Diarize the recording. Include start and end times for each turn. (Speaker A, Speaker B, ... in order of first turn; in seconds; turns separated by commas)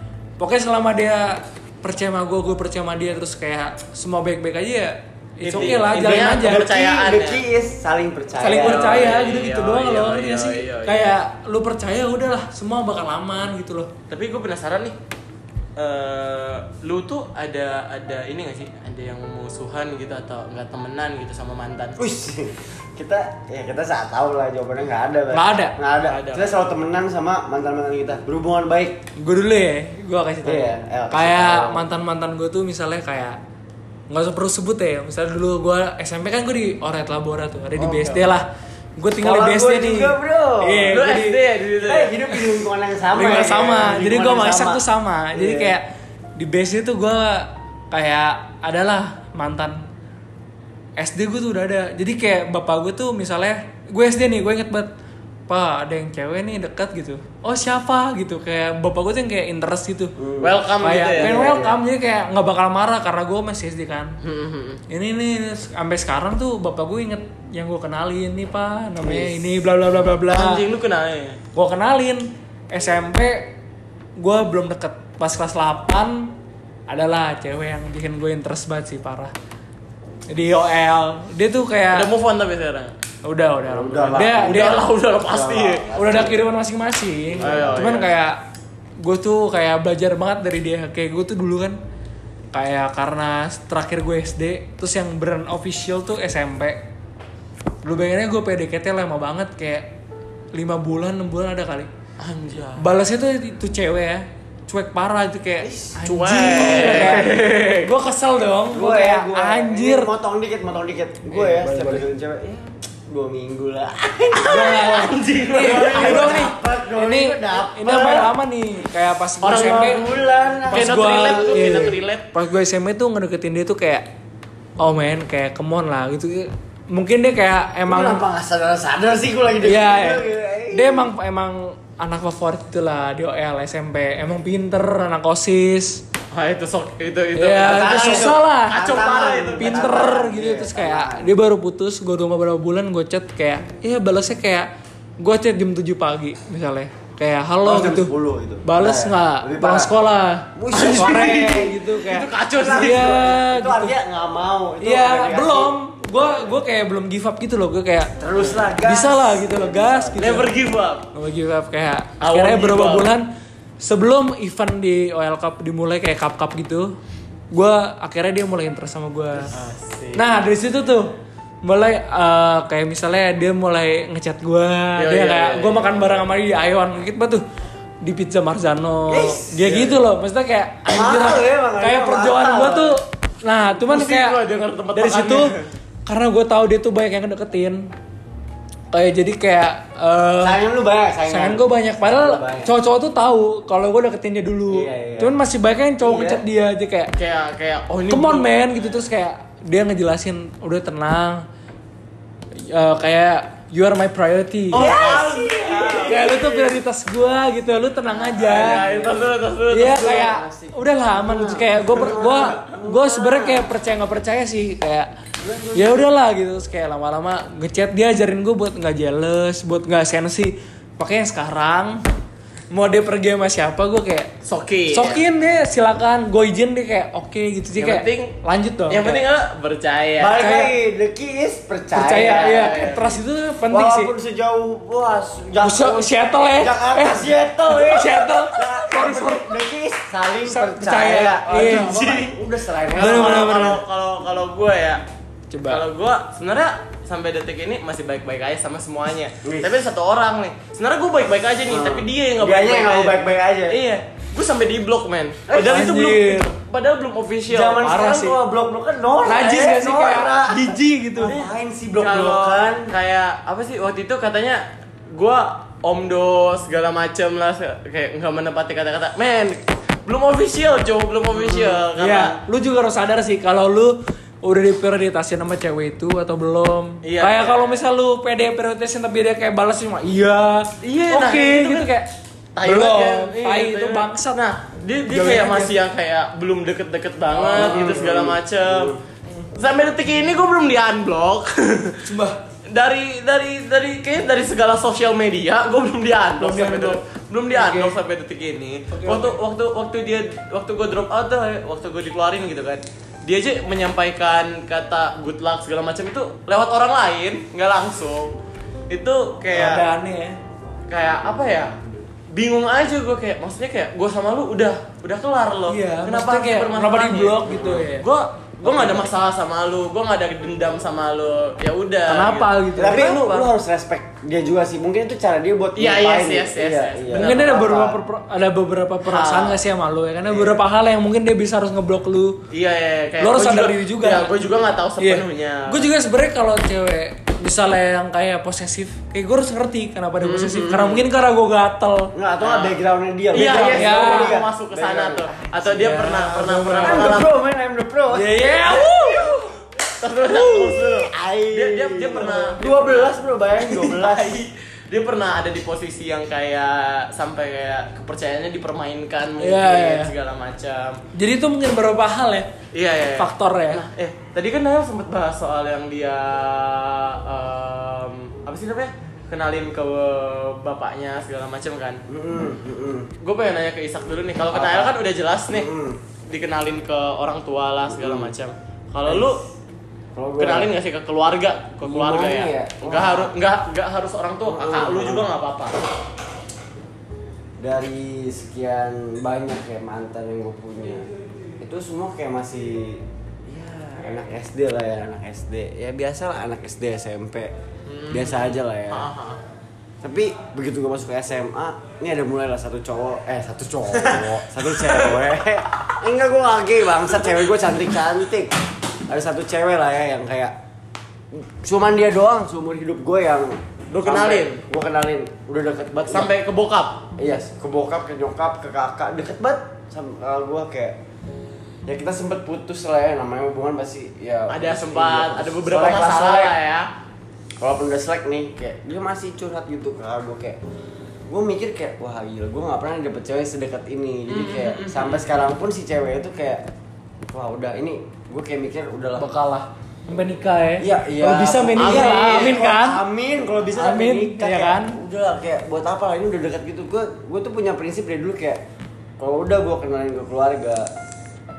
Speaker A: 0.4-6.7, Speaker B: 5.4-7.4, Speaker C: 5.5-9.1, Speaker A: 8.4-13.9, Speaker B: 8.5-11.1, Speaker B: 14.1-14.9, Speaker B: 15.8-22.0, Speaker C: 22.0-29.0, Speaker A: 25.3-25.8, Speaker B: 26.0-26.5, Speaker A: 29.2-33.4, Speaker C: 30.4-31.8, Speaker A: 34.1-38.5, Speaker C: 37.8-38.2, Speaker A: 39.0-41.4, Speaker C: 39.2-41.0, Speaker B: 40.9-42.1, Speaker C: 41.8-45.8, Speaker A: 43.1-45.9, Speaker A: 46.4-49.8, Speaker A: 51.0-54.9, Speaker A: 55.5-60.1, Speaker C: 60.2-60.6, Speaker B: 60.4-61.4, Speaker A: 60.8-64.2, Speaker C: 61.1-61.8, Speaker B: 64.2-64.8, Speaker A: 64.9-70.6, Speaker C: 69.0-69.4, Speaker B: 70.3-71.4, Speaker A: 71.5-73.6, Speaker A: 74.2-76.3, Speaker A: 76.9-79.3, Speaker A: 80.3-82.1, Speaker B: 81.9-82.9, Speaker A: 83.2-84.9, Speaker C: 83.7-86.4, Speaker B: 84.1-85.9, Speaker A: 85.9-88.4, Speaker C: 87.3-88.0, Speaker B: 87.4-88.1, Speaker A: 89.0-91.8, Speaker A: 92.5-96.8, Speaker A: 97.8-99.9, Speaker A: 100.5-101.9, Speaker B: 102.2-102.8, Speaker A: 102.8-110.1, Speaker C: 105.7-105.9, Speaker B: 106.0-107.9, Speaker C: 106.5-107.4, Speaker C: 108.7-118.3, Speaker A: 111.3-112.0, Speaker B: 114.4-116.5, Speaker A: 114.5-120.0, Speaker B: 119.4-122.3, Speaker C: 119.5-121.9, Speaker A: 120.7-124.1, Speaker A: 124.8-128.2, Speaker C: 127.9-131.1, Speaker A: 129.6-136.0, Speaker B: 136.3-140.0, Speaker A: 137.4-139.0, Speaker C: 137.6-141.3, Speaker A: 139.6-144.7, Speaker A: 145.2-148.1, Speaker C: 147.6-149.9, Speaker A: 148.6-153.9, Speaker C: 150.5-151.8, Speaker B: 150.7-153.1, Speaker C: 152.6-156.5, Speaker A: 154.8-158.1, Speaker C: 158.2-160.5, Speaker A: 158.8-160.5, Speaker B: 160.2-161.1, Speaker A: 161.1-163.3, Speaker B: 162.2-163.1, Speaker A: 163.8-166.9, Speaker A: 167.5-169.5, Speaker B: 169.5-170.3, Speaker A: 170.1-177.4, Speaker B: 175.0-176.2, Speaker A: 178.0-184.4, Speaker C: 179.1-180.0, Speaker C: 180.9-183.0, Speaker B: 183.7-185.7, Speaker A: 184.9-185.5, Speaker A: 186.1-187.9, Speaker A: 188.9-190.6, Speaker C: 190.4-192.7, Speaker A: 191.3-197.1, Speaker C: 194.7-195.4, Speaker C: 196.0-196.4, Speaker B: 197.2-198.5, Speaker A: 198.1-201.4, Speaker A: 202.5-204.9, Speaker C: 204.7-206.6, Speaker B: 204.7-206.7, Speaker A: 206.0-208.9, Speaker C: 208.1-209.2, Speaker B: 208.4-210.3, Speaker A: 209.7-215.1, Speaker C: 209.8-213.7, Speaker C: 215.4-216.1, Speaker A: 215.7-222.0, Speaker A: 222.7-224.3, Speaker B: 224.4-225.2, Speaker A: 224.9-229.2, Speaker B: 227.8-228.4, Speaker B: 228.9-230.4, Speaker C: 230.2-232.9, Speaker A: 230.4-230.7, Speaker A: 231.9-234.1, Speaker B: 232.1-233.2, Speaker C: 233.7-243.6, Speaker A: 235.6-239.5, Speaker A: 240.4-242.1, Speaker B: 241.5-242.4, Speaker B: 242.9-245.0, Speaker A: 242.9-243.8, Speaker A: 245.5-245.8, Speaker B: 245.7-257.9, Speaker C: 249.4-249.8, Speaker C: 251.7-253.8, Speaker C: 255.5-256.1, Speaker A: 255.6-256.5, Speaker C: 257.5-262.9, Speaker A: 257.8-258.4, Speaker A: 259.2-261.4, Speaker B: 261.2-272.4, Speaker A: 271.9-282.1, Speaker B: 277.0-277.8, Speaker B: 280.8-281.9, Speaker B: 282.5-289.0, Speaker A: 282.6-284.4, Speaker A: 285.1-285.7, Speaker A: 287.4-288.0, Speaker C: 287.4-289.0, Speaker B: 289.5-292.0, Speaker A: 292.0-292.4, Speaker B: 292.7-308.4, Speaker A: 296.4-297.9, Speaker A: 298.9-299.4, Speaker B: 308.9-309.8, Speaker A: 309.5-310.4, Speaker B: 310.9-311.7, Speaker B: 312.3-323.4, Speaker A: 315.7-318.1, Speaker C: 317.5-317.8, Speaker A: 318.6-319.0, Speaker A: 322.1-323.3, Speaker C: 322.7-328.0, Speaker B: 325.8-327.4, Speaker A: 327.1-332.4, Speaker B: 329.0-329.6, Speaker C: 330.3-330.6, Speaker B: 332.5-335.9, Speaker A: 333.2-334.3, Speaker A: 335.0-342.1, Speaker B: 340.2-341.1, Speaker C: 342.1-349.3, Speaker B: 342.4-342.8, Speaker B: 343.3-347.3, Speaker A: 343.4-344.4, Speaker A: 345.7-347.2, Speaker A: 348.1-349.5, Speaker B: 350.0-361.0, Speaker C: 350.3-354.4, Speaker A: 359.4-360.1, Speaker A: 361.1-362.5, Speaker B: 362.7-372.0, Speaker A: 363.2-363.8, Speaker C: 372.1-373.1, Speaker B: 373.2-375.7, Speaker C: 374.5-374.9, Speaker C: 375.5-376.0, Speaker B: 376.3-379.4, Speaker C: 377.9-378.3, Speaker C: 379.1-379.3, Speaker C: 380.1-380.7, Speaker B: 380.4-385.8, Speaker C: 381.8-383.3, Speaker C: 384.5-385.3, Speaker C: 387.6-391.1, Speaker C: 391.6-397.5, Speaker B: 397.9-399.4, Speaker C: 398.1-399.1, Speaker C: 400.0-408.6, Speaker B: 404.0-405.2, Speaker C: 409.1-410.5, Speaker C: 411.3-416.3, Speaker B: 413.9-414.6, Speaker B: 416.1-417.0, Speaker C: 417.2-421.0, Speaker C: 421.9-426.6, Speaker B: 424.5-426.9, Speaker C: 427.6-430.6, Speaker C: 431.3-436.6, Speaker B: 434.3-435.2, Speaker C: 437.3-439.3, Speaker A: 439.2-443.0, Speaker C: 440.8-448.6, Speaker B: 441.8-442.6, Speaker A: 443.8-445.0, Speaker C: 449.2-450.9